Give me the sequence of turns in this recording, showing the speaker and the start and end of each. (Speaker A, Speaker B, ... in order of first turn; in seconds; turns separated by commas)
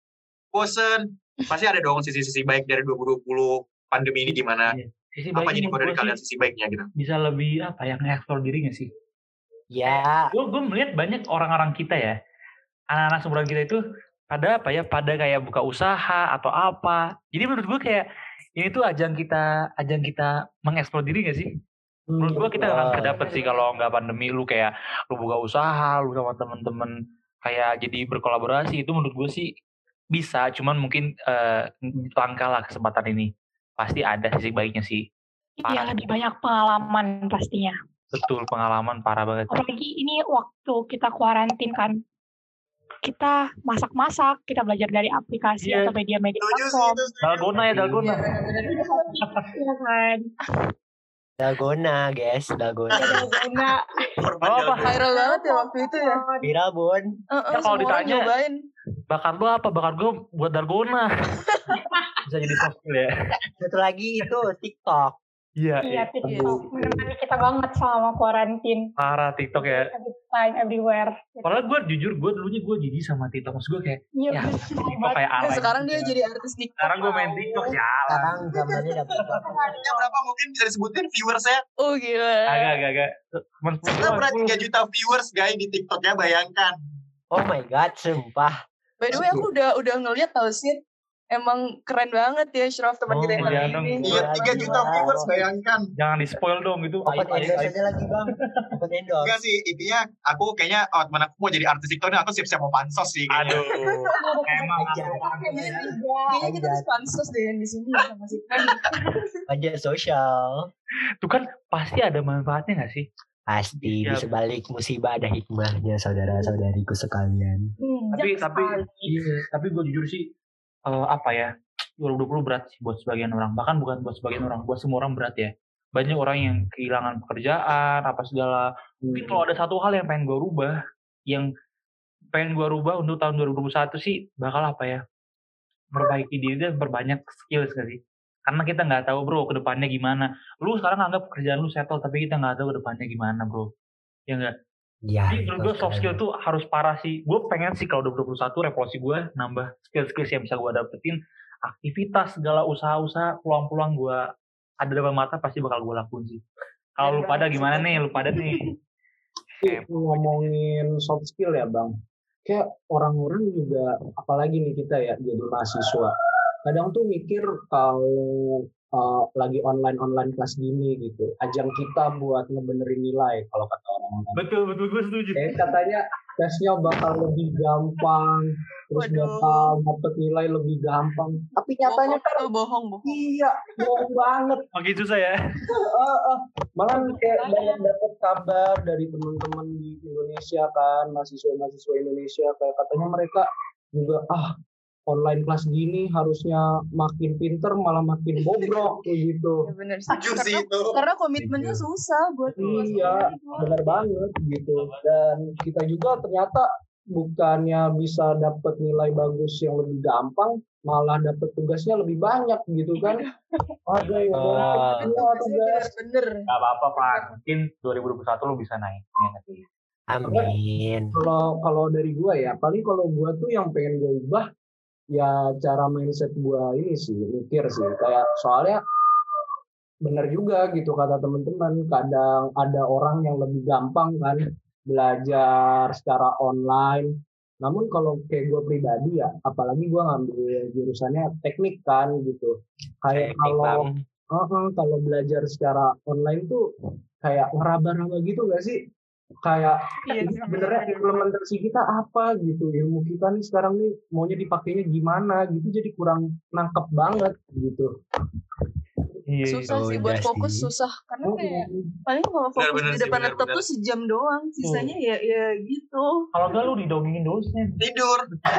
Speaker A: 0.5-4.7, Speaker B: 4.7-6.2, Speaker A: 5.4-6.9, Speaker B: 7.0-8.9, Speaker C: 9.7-10.3, Speaker B: 10.3-12.1, Speaker B: 12.9-13.8, Speaker B: 14.3-18.1, Speaker B: 18.6-21.5, Speaker D: 22.1-22.7, Speaker B: 22.2-26.9, Speaker C: 22.6-23.2, Speaker E: 22.9-23.7, Speaker B: 27.4-29.5, Speaker B: 30.1-35.0, Speaker F: 35.6-37.7, Speaker B: 35.7-36.0, Speaker B: 38.1-39.5, Speaker F: 39.5-42.0, Speaker F: 43.0-47.0, Speaker B: 45.6-45.9, Speaker A: 46.4-47.5, Speaker B: 47.2-48.2, Speaker E: 47.9-49.1, Speaker F: 48.7-50.2, Speaker C: 51.4-53.2, Speaker F: 52.9-53.9, Speaker E: 53.3-53.5, Speaker A: 54.2-54.9, Speaker B: 54.4-54.9, Speaker E: 54.8-56.2, Speaker F: 55.0-56.5, Speaker C: 56.4-57.0, Speaker E: 57.3-58.5, Speaker B: 57.5-58.3, Speaker B: 59.1-61.1, Speaker E: 61.4-61.7, Speaker F: 61.8-62.1, Speaker B: 62.3-63.1, Speaker C: 63.6-65.2, Speaker B: 65.6-66.1, Speaker F: 65.8-68.8, Speaker D: 66.2-67.1, Speaker E: 66.3-66.6, Speaker B: 69.0-69.8, Speaker F: 69.5-71.7, Speaker B: 71.5-76.2, Speaker F: 74.2-75.2, Speaker E: 75.4-79.4, Speaker B: 76.8-78.4, Speaker C: 78.2-79.6, Speaker F: 79.2-80.1, Speaker A: 79.6-81.6, Speaker E: 81.8-82.8, Speaker B: 82.5-84.6, Speaker A: 83.9-86.8, Speaker C: 87.3-88.5, Speaker E: 89.0-90.8, Speaker D: 89.1-89.5, Speaker E: 91.3-94.6, Speaker C: 93.1-95.3, Speaker B: 93.4-94.1, Speaker A: 94.0-95.9, Speaker B: 96.0-97.8, Speaker C: 97.0-99.3, Speaker B: 98.3-98.7, Speaker A: 99.2-103.7, Speaker B: 103.3-105.8, Speaker E: 103.7-104.4, Speaker F: 104.1-105.6, Speaker C: 104.8-106.9, Speaker E: 104.9-109.4, Speaker C: 109.5-110.7, Speaker B: 111.2-113.1, Speaker C: 113.5-117.6, Speaker B: 113.8-114.3, Speaker E: 117.8-118.8, Speaker B: 118.1-120.2, Speaker B: 120.9-121.5, Speaker B: 122.0-130.8, Speaker D: 129.0-129.4, Speaker B: 132.3-135.0, Speaker B: 135.9-143.7, Speaker C: 145.1-146.2, Speaker B: 145.3-154.2, Speaker B: 154.8-156.4, Speaker B: 157.0-158.7, Speaker E: 157.0-158.7, Speaker B: 159.6-160.5, Speaker D: 159.6-161.9, Speaker D: 162.5-166.1, Speaker D: 166.7-174.4, Speaker B: 174.4-175.7, Speaker D: 175.4-182.5, Speaker E: 178.9-179.8, Speaker E: 181.8-183.3, Speaker D: 183.0-184.7, Speaker B: 184.7-185.3, Speaker D: 185.7-194.5, Speaker F: 186.9-187.8, Speaker D: 195.1-199.7, Speaker E: 198.5-198.9, Speaker E: 199.6-203.7, Speaker A: 200.1-201.1, Speaker B: 201.4-201.8, Speaker D: 202.5-213.2, Speaker B: 202.6-204.1, Speaker B: 204.8-205.1, Speaker E: 213.0-213.6, Speaker D: 213.9-215.9, Speaker B: 214.0-214.7, Speaker C: 214.3-215.1, Speaker E: 214.6-216.3, Speaker B: 216.5-219.7, Speaker E: 217.0-217.2, Speaker C: 220.1-221.1, Speaker D: 220.2-220.5, Speaker D: 221.2-224.5, Speaker D: 225.1-228.8, Speaker D: 230.0-237.1, Speaker D: 237.6-246.6, Speaker C: 243.1-244.0, Speaker D: 247.2-248.8, Speaker D: 249.4-257.9, Speaker F: 250.1-251.1, Speaker E: 250.2-251.1, Speaker B: 259.3-259.9, Speaker E: 259.5-266.1, Speaker C: 259.7-260.7, Speaker D: 261.2-261.9, Speaker A: 262.6-263.6, Speaker B: 264.6-264.9, Speaker B: 266.3-267.8, Speaker A: 267.8-268.2